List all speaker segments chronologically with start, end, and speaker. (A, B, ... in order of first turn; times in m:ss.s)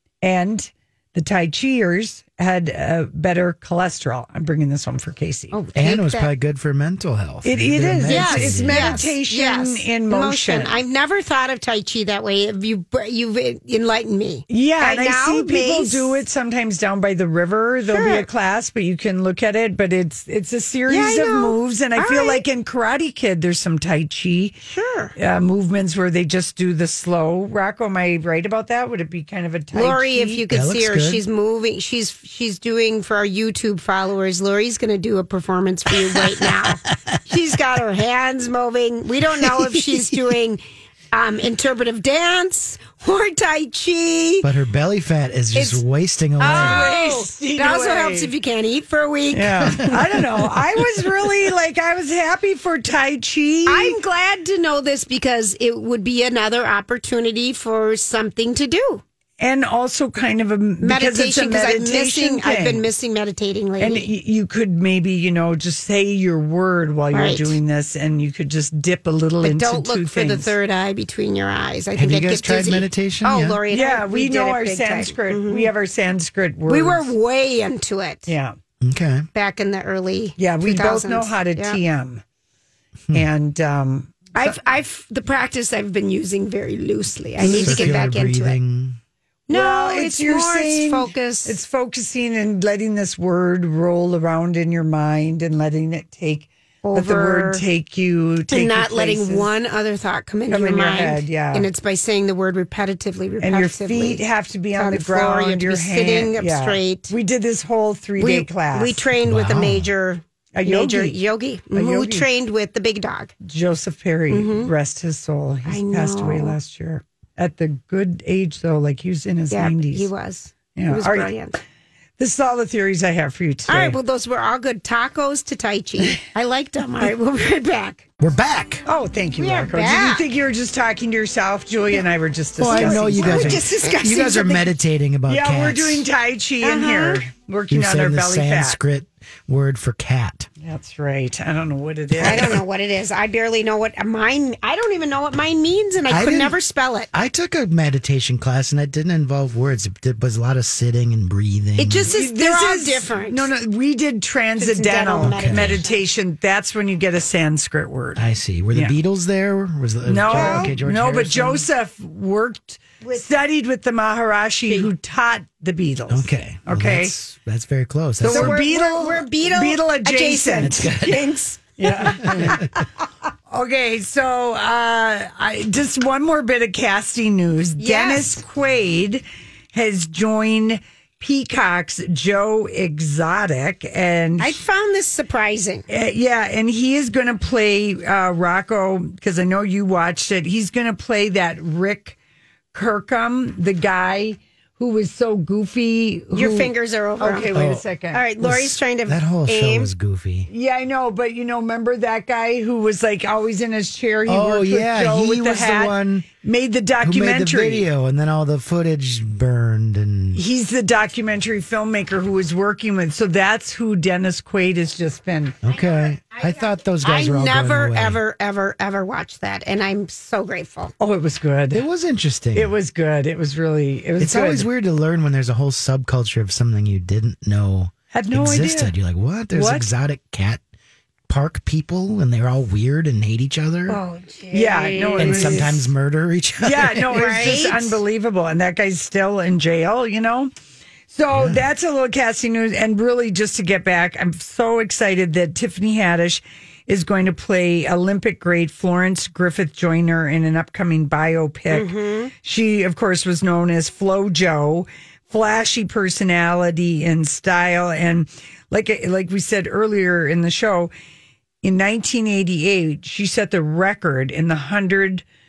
0:00.2-0:05.5 A
0:05.5-0:06.3 B
0:05.7-0:09.0 C
0:07.4-0:10.8 A
0:08.0-0:16.2 B
0:14.5-0:24.6 A
0:17.9-0:18.2 B
0:20.9-0:22.4 B
0:24.6-0:25.1 B
0:25.2-0:30.4 A
0:29.7-0:40.6 B
0:30.5-0:31.2 C
0:41.1-0:44.5 B
0:44.4-0:46.9 C
0:45.5-0:45.8 B
0:46.4-0:49.9 B
0:46.4-0:48.3 A
0:49.3-0:54.0 A
0:49.9-0:50.3 C
0:53.6-0:59.0 B
0:59.4-1:02.9 A
1:00.8-1:04.1 B
1:03.8-1:10.5 A
1:07.1-1:07.5 B
1:09.4-1:15.7 B
1:11.9-1:13.6 C
1:13.7-1:17.1 A
1:16.7-1:18.3 B
1:18.3-1:18.6 A
1:18.8-1:19.3 C
1:19.3-1:21.8 B
1:20.4-1:22.2 A
1:23.1-1:24.6 A
1:24.3-1:28.6 B
1:27.4-1:29.0 C
1:27.4-1:28.0 A
1:29.5-1:31.6 B
1:29.5-1:39.5 A
1:36.8-1:37.6 B
1:38.5-1:44.2 B
1:40.5-1:41.7 A
1:43.4-1:49.0 A
1:44.8-1:47.1 B
1:48.2-1:53.3 B
1:49.2-1:49.9 C
1:50.5-1:51.2 A
1:51.7-1:52.3 A
1:53.4-2:00.1 A
1:54.3-1:54.7 B
1:55.7-1:56.6 B
1:59.5-2:01.6 B
2:00.7-2:01.3 A
2:02.2-2:04.0 A
2:03.7-2:08.1 B
2:08.2-2:08.8 C
2:08.8-2:13.7 A
2:09.4-2:10.2 B
2:12.6-2:16.1 C
2:12.6-2:14.7 B
2:15.3-2:18.8 A
2:16.6-2:17.2 B
2:17.7-2:20.5 C
2:20.6-2:22.6 A
2:22.2-2:27.1 B
2:26.1-2:26.6 C
2:27.1-2:32.1 C
2:31.8-2:33.5 B
2:32.0-2:39.0 A
2:34.6-2:36.0 B
2:35.2-2:35.8 C
2:38.2-2:41.6 C
2:40.0-2:47.1 A
2:40.2-2:40.8 B
2:43.0-2:43.2 B
2:46.1-2:48.6 C
2:48.2-2:51.1 A
2:48.2-2:52.6 B
2:50.6-2:51.3 C
2:51.8-2:52.8 A
2:52.2-2:52.5 C
2:53.5-3:04.6 A
2:57.8-2:58.4 B
3:04.4-3:05.8 B
3:05.9-3:12.2 A
3:12.7-3:18.2 A
3:16.3-3:19.9 B
3:17.5-3:17.8 C
3:18.4-3:20.5 C
3:20.5-3:27.9 A
3:24.2-3:26.3 C
3:27.0-3:30.4 C
3:30.3-3:35.6 A
3:35.6-3:38.2 C
3:35.7-3:40.9 B
3:41.0-3:41.9 A
3:41.7-3:42.7 C
3:42.5-3:44.7 A
3:44.2-3:50.6 C
3:48.1-3:48.9 A
3:49.5-3:49.9 A
3:51.3-3:54.0 C
3:53.9-3:55.8 B
3:54.5-3:55.9 A
3:55.2-3:57.4 C
3:56.6-4:00.5 A
3:57.1-3:58.0 B
4:01.1-4:11.9 A
4:01.3-4:01.6 C
4:11.7-4:12.3 B
4:12.4-4:20.9 A
4:21.6-4:25.2 A